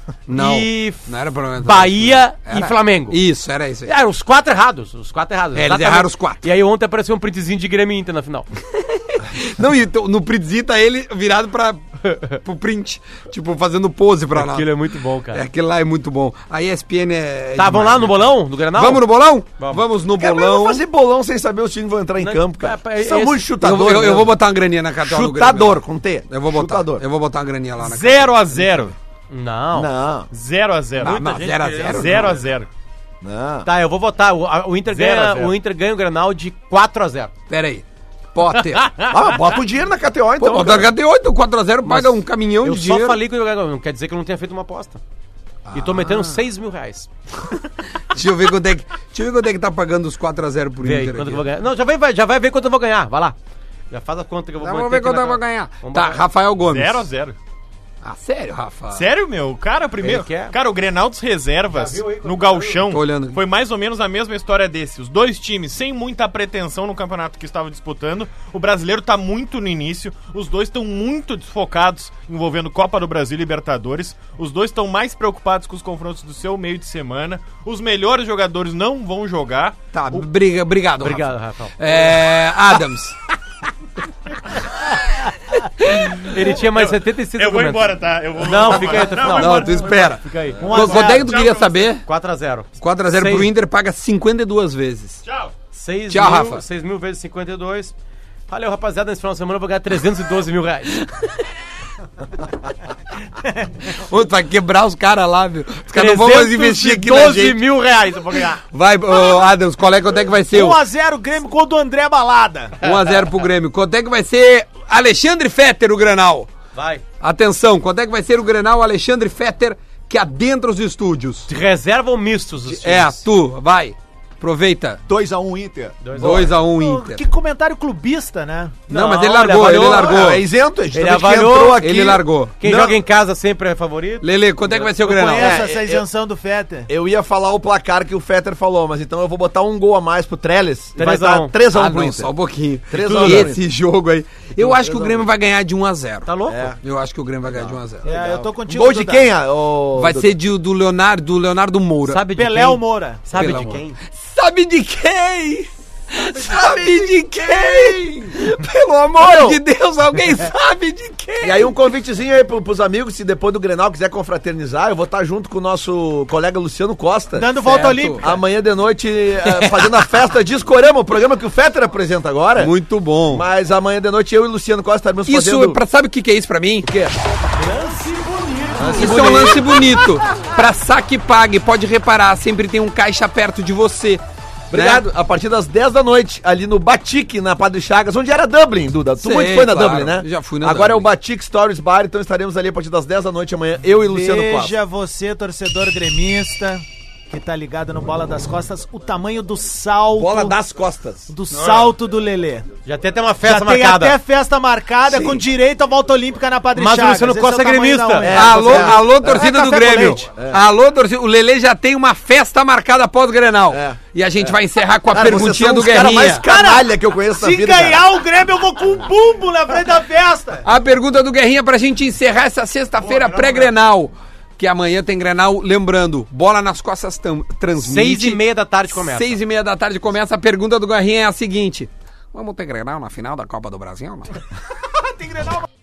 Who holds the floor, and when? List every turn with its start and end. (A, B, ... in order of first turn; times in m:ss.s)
0:00.3-0:03.9 A
0:00.3-0:03.2 B
0:03.8-0:08.5 B
0:05.5-0:06.5 A
0:08.7-0:14.7 A
0:12.1-0:12.4 B
0:14.3-0:15.4 B
0:15.3-0:20.8 A
0:17.6-0:19.1 B
0:19.6-0:19.8 B
0:20.2-0:24.3 C
0:22.2-0:23.4 B
0:23.6-0:28.4 A
0:25.0-0:27.0 C
0:27.8-0:29.0 D
0:29.3-0:29.9 B
0:29.8-0:30.3 C
0:30.3-0:31.2 D
0:31.0-0:32.4 A
0:31.0-0:32.4 B
0:31.8-0:32.7 D
0:33.2-0:33.7 C
0:33.6-0:37.3 B
0:34.9-0:35.6 D
0:37.5-0:38.9 A
0:38.8-0:39.1 D
0:39.1-0:40.9 C
0:40.4-0:43.2 A
0:41.9-0:45.0 B
0:45.7-0:46.4 A
0:45.7-0:47.1 B
0:48.0-0:51.4 A
0:50.8-0:53.4 B
0:53.9-0:56.2 B
0:54.6-0:57.1 A
0:56.7-0:57.4 D
0:58.0-0:59.1 A
0:58.9-1:19.8 D
1:00.0-1:00.6 B
1:01.7-1:02.8 B
1:02.9-1:03.4 A
1:19.9-1:23.2 A
1:21.0-1:22.1 B
1:26.0-1:30.7 B
1:26.6-1:30.2 D
1:29.2-1:32.0 A
1:30.6-1:31.4 E
1:30.8-1:31.9 D
1:32.1-1:33.5 B
1:32.8-1:35.2 A
1:35.2-1:35.5 D
1:35.7-1:37.9 B
1:36.1-1:36.6 A
1:38.5-1:41.0 B
1:41.0-1:41.4 A
1:43.4-1:43.7 E
1:43.8-1:47.6 A
1:45.9-1:48.6 B
1:48.6-1:50.8 A
1:50.5-1:52.9 E
1:52.8-1:56.5 A
1:56.7-1:57.0 B
1:57.2-2:01.5 A
2:01.5-2:03.2 B
2:02.6-2:05.0 A
2:05.1-2:06.6 C
2:06.0-2:06.5 B
2:06.2-2:07.2 A
2:06.6-2:08.9 E
2:08.9-2:10.4 B
2:08.9-2:10.5 A
2:09.5-2:13.0 C
2:10.9-2:11.9 B
2:11.8-2:12.6 A
2:12.6-2:15.3 B
2:14.2-2:15.7 A
2:15.0-2:16.9 E
2:15.4-2:16.0 C
2:16.9-2:22.3 C
2:21.0-2:21.6 B
2:21.7-2:26.3 A
2:22.9-2:23.6 C
2:23.2-2:23.5 B
2:24.5-2:25.2 B
2:26.3-2:26.7 B
2:26.5-2:26.8 C
2:26.8-2:28.1 A
2:27.5-2:30.3 C
2:28.0-2:29.3 E
2:30.0-2:32.2 A
2:32.1-2:34.0 B
2:32.3-2:33.6 E
2:33.4-2:41.7 A
2:36.4-2:38.4 C
2:39.2-2:39.6 C
2:41.4-2:47.5 C
2:47.3-2:48.4 E
2:47.6-2:48.3 A
2:48.2-2:52.7 C
2:49.5-2:50.0 A
2:52.6-2:53.5 A
2:53.3-2:55.8 C
2:55.3-2:56.9 A
2:56.8-2:57.2 C
2:57.5-2:59.6 B
2:58.8-3:00.0 C
2:59.0-3:05.0 A
3:04.7-3:14.8 C
3:09.2-3:11.1 A
3:14.0-3:20.6 E
3:20.1-3:21.3 C
3:21.3-3:22.7 E
3:21.5-3:21.9 D
3:22.8-3:24.2 B
3:23.4-3:30.2 E
3:25.1-3:25.4 C
3:26.8-3:28.3 B
3:28.2-3:29.4 C
3:28.2-3:36.5 A
3:30.3-3:30.6 C
3:33.7-3:34.6 C
3:35.1-3:38.0 C
3:36.4-3:40.7 E
3:40.6-3:54.4 A
3:43.0-3:43.7 D
3:47.8-3:49.4 B
3:54.9-3:55.7 E